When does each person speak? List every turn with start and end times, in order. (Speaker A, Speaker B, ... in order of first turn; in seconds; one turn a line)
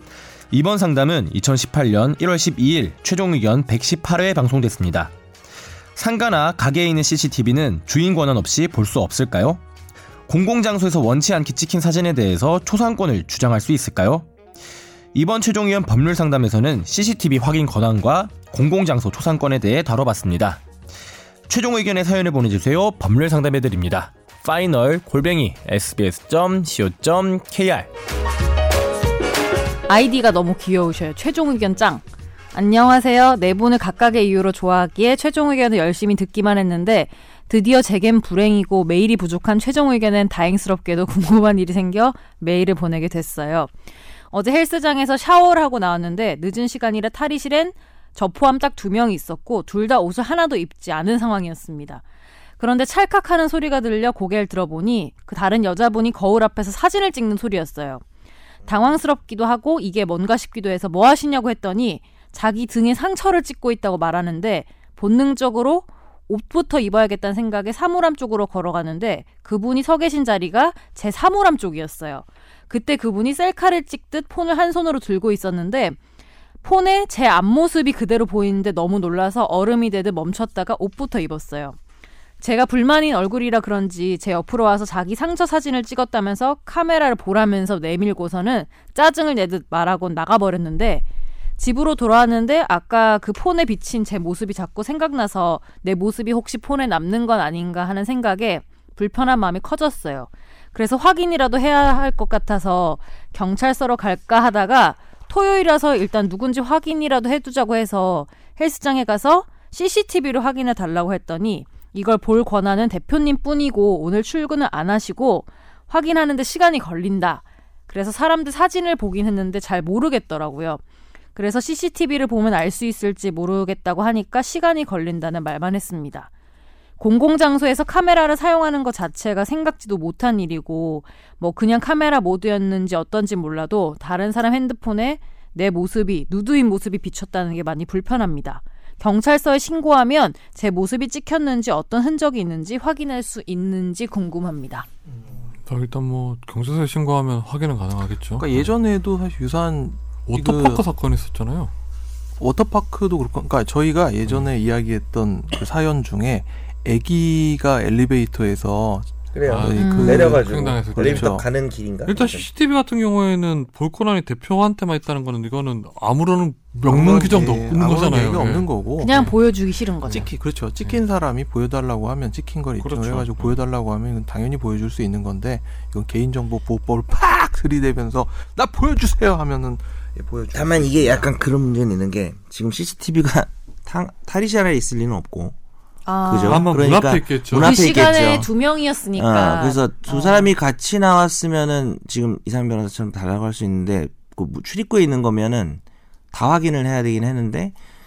Speaker A: 0.5-5.1
Speaker A: 6.0-9.6
Speaker A: 10.3-14.3
Speaker A: 15.1-20.6
Speaker A: 21.5-27.9
Speaker B: 29.9-43.7
Speaker B: 44.3-52.0
Speaker B: 52.6-58.0
Speaker B: 58.6-76.0
Speaker B: 76.6-81.8
Speaker B: 82.4-91.0
Speaker B: 91.6-120.8
Speaker B: 121.3-126.3
Speaker B: 127.0-144.9
Speaker C: 145.7-148.7
Speaker D: 148.4-150.8
Speaker C: 150.3-151.7
Speaker D: 152.4-161.5
Speaker E: 159.3-162.5
Speaker C: 159.5-161.3
Speaker B: 159.8-160.4
Speaker C: 162.0-169.4
Speaker D: 166.8-169.3
Speaker B: 169.0-170.3
Speaker D: 170.1-181.3
Speaker C: 172.8-173.6
Speaker E: 180.5-185.5
Speaker B: 186.0-186.7
Speaker E: 186.2-188.5
Speaker C: 186.4-188.1
Speaker B: 187.6-190.5
Speaker E: 189.1-197.7